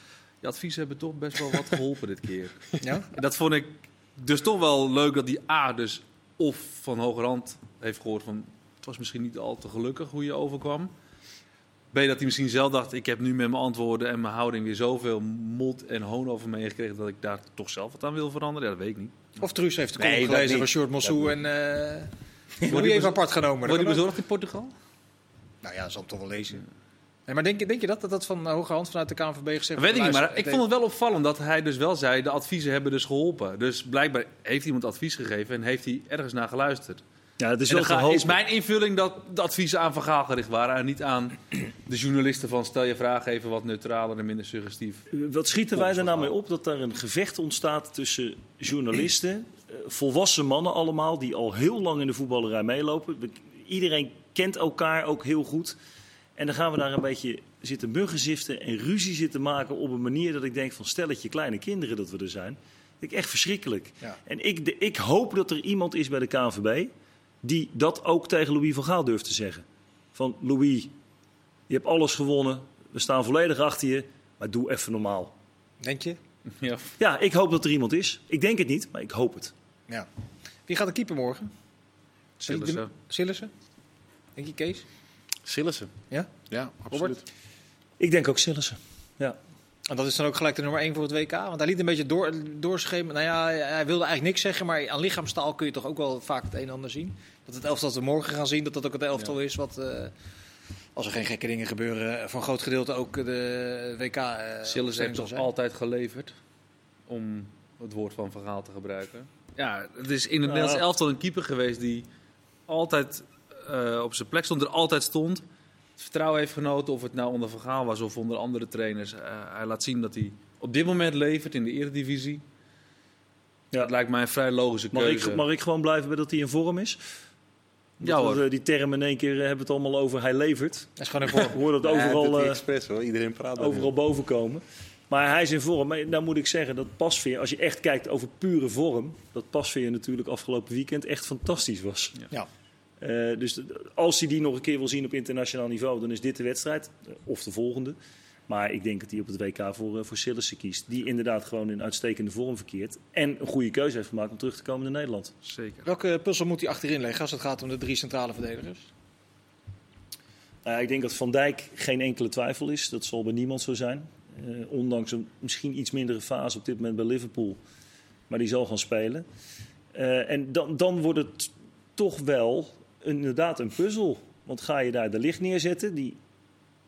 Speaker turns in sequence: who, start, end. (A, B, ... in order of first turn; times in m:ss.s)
0:00.4-0:10.9 A
0:02.8-0:03.1 B
0:11.9-0:19.3 A
0:19.4-0:22.1 B
0:20.0-0:21.3 C
0:22.6-0:24.0 B
0:22.6-0:24.7 A
0:25.6-0:26.6 B
0:27.3-0:30.6 B
0:29.8-0:37.0 A
0:37.4-0:38.4 D
0:37.7-0:45.0 A
0:45.1-0:55.8 D
0:45.8-0:46.3 A
0:56.4-1:06.9 D
1:07.4-1:10.9 D
1:11.7-1:15.3 D
1:15.8-1:16.2 B
1:16.6-1:16.9 A
1:17.0-1:19.5 D
1:20.7-1:21.5 B
1:22.4-1:22.9 A
1:22.4-1:23.5 B
1:24.4-1:24.8 B
1:25.4-1:25.9 C
1:26.5-1:27.2 C
1:26.9-1:27.2 B
1:28.0-1:29.4 D
1:29.9-1:40.1 B
1:41.0-1:45.5 B
1:44.6-1:46.3 A
1:47.1-1:52.1 A
1:50.4-1:50.8 D
1:52.7-1:55.4 A
1:56.0-2:02.4 A
2:03.8-2:05.4 A
2:04.9-2:07.0 D
2:08.0-2:12.6 D
2:08.0-2:08.4 A
2:11.0-2:11.6 B
2:11.8-2:13.9 C
2:13.6-2:22.2 D
2:23.0-2:35.3 D
2:35.4-2:35.8 A
2:35.8-2:38.9 B
2:40.6-2:47.6 D
2:48.3-2:49.2 D
2:49.9-2:56.2 D